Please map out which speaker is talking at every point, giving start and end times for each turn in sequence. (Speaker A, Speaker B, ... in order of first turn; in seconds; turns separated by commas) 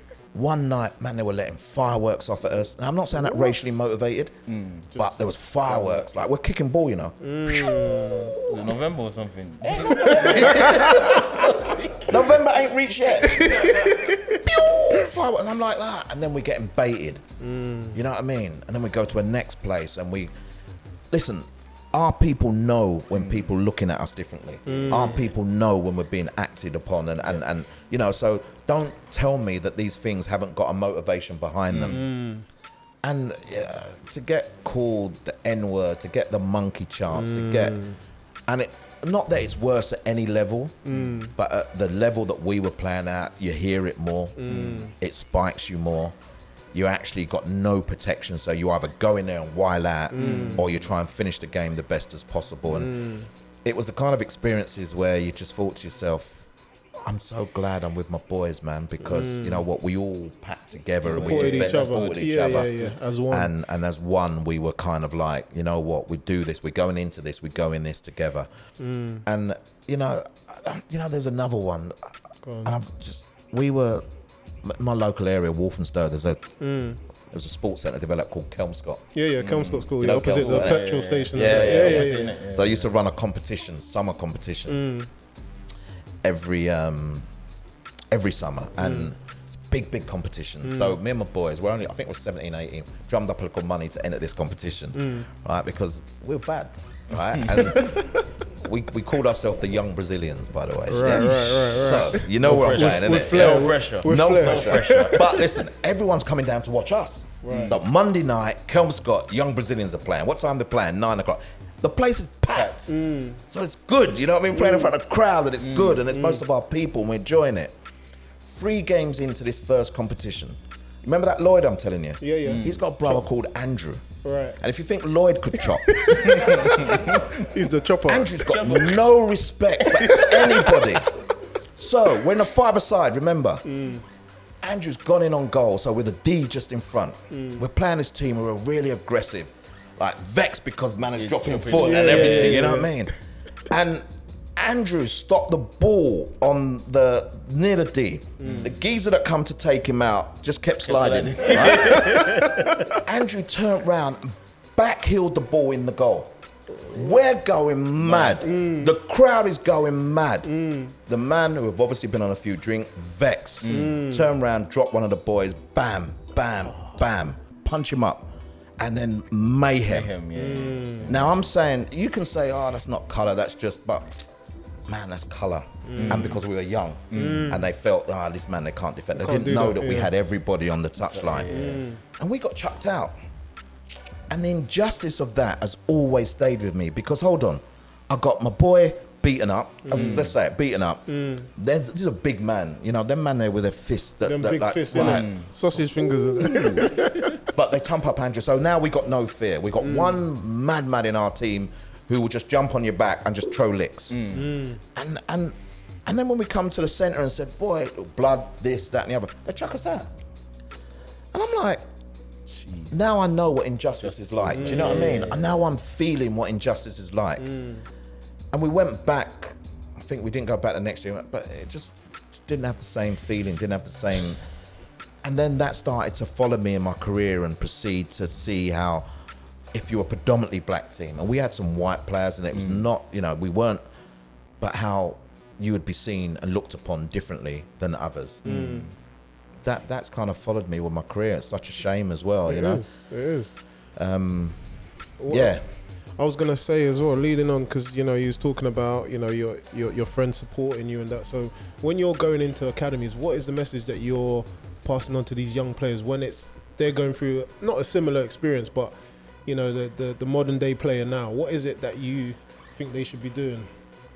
Speaker A: 0.3-4.4, Speaker B: 4.5-4.9, Speaker A: 4.9-8.7, Speaker C: 7.2-8.4, Speaker B: 8.4-12.3, Speaker A: 9.6-11.3, Speaker C: 9.8-11.2, Speaker A: 12.0-17.2, Speaker C: 13.2-14.4, Speaker C: 17.4-18.0, Speaker A: 17.9-20.3, Speaker A: 21.1-32.0, Speaker B: 23.2-23.5, Speaker C: 24.6-25.1, Speaker B: 31.7-32.0, Speaker C: 31.9-32.5, Speaker A: 33.0-37.8, Speaker C: 37.1-38.0, Speaker A: 38.5-46.1, Speaker C: 40.9-41.3, Speaker C: 44.4-44.9, Speaker B: 44.5-44.9, Speaker A: 46.7-53.0, Speaker C: 50.1-50.6, Speaker B: 50.1-50.7, Speaker C: 52.7-53.3, Speaker A: 53.6-56.5, Speaker A: 57.0-68.5, Speaker C: 59.0-59.6, Speaker B: 61.1-62.2, Speaker C: 61.1-63.5, Speaker C: 68.8-69.2, Speaker A: 69.2-74.1, Speaker C: 72.4-72.7, Speaker A: 74.6-76.5, Speaker C: 76.6-77.0, Speaker A: 77.3-79.0, Speaker C: 79.1-82.4, Speaker B: 79.4-82.9, Speaker A: 80.0-84.8, Speaker C: 84.7-85.1, Speaker A: 86.2-87.3, Speaker A: 88.1-112.8, Speaker C: 88.8-89.1, Speaker C: 90.6-91.0, Speaker C: 94.9-95.3, Speaker B: 97.1-97.7, Speaker C: 97.7-98.2, Speaker C: 100.9-105.4, Speaker B: 101.1-101.4, Speaker B: 102.4-105.3, Speaker C: 107.4-107.7, Speaker B: 107.5-107.8, Speaker B: 112.5-112.9, Speaker C: 112.9-113.4, Speaker A: 113.5-117.7, Speaker C: 114.5-114.9, Speaker B: 115.6-116.0, Speaker C: 116.1-116.4, Speaker A: 118.4-124.0, Speaker C: 122.2-122.6, Speaker B: 122.4-123.2, Speaker C: 124.2-124.6, Speaker A: 124.6-126.6, Speaker C: 125.9-128.5, Speaker B: 126.2-127.3, Speaker A: 128.0-131.1, Speaker C: 129.8-130.8, Speaker A: 131.8-133.6, Speaker C: 133.6-134.0, Speaker A: 134.6-143.1, Speaker C: 137.3-137.6, Speaker B: 141.1-142.9, Speaker C: 141.8-142.9, Speaker A: 143.7-144.0, Speaker A: 144.6-152.2, Speaker C: 148.4-148.6, Speaker B: 148.4-148.7, Speaker B: 150.8-152.8, Speaker C: 151.8-152.3, Speaker A: 153.0-170.1, Speaker B: 158.0-158.4, Speaker C: 158.4-158.9, Speaker C: 160.4-160.9, Speaker B: 163.6-164.0, Speaker C: 163.7-164.3, Speaker B: 169.9-171.5, Speaker C: 170.4-171.1, Speaker A: 171.1-174.3, Speaker A: 174.9-183.1, Speaker C: 175.8-176.4, Speaker B: 176.0-176.4, Speaker B: 177.1-177.5, Speaker C: 177.1-177.6, Speaker C: 179.2-180.1, Speaker B: 181.0-181.8, Speaker C: 181.5-182.0, Speaker A: 184.3-195.5, Speaker C: 189.8-190.2, Speaker B: 189.9-190.3, Speaker C: 191.1-191.5, Speaker C: 194.2-197.3, Speaker B: 194.9-195.5, Speaker B: 196.4-197.0, Speaker A: 197.5-204.3, Speaker C: 199.8-200.2, Speaker B: 204.1-204.5, Speaker C: 204.3-204.8, Speaker A: 204.9-210.1, Speaker A: 211.3-211.8, Speaker B: 212.5-213.0, Speaker A: 212.9-217.4, Speaker B: 214.0-215.6, Speaker C: 214.5-215.2, Speaker C: 217.4-217.8, Speaker A: 218.5-224.4, Speaker A: 225.2-229.1, Speaker A: 229.7-233.8, Speaker B: 232.5-232.8, Speaker A: 234.6-238.4, Speaker C: 238.4-238.9, Speaker B: 238.4-238.9, Speaker A: 239.6-242.9, Speaker C: 242.5-243.6, Speaker A: 243.9-245.7, Speaker C: 245.2-263.7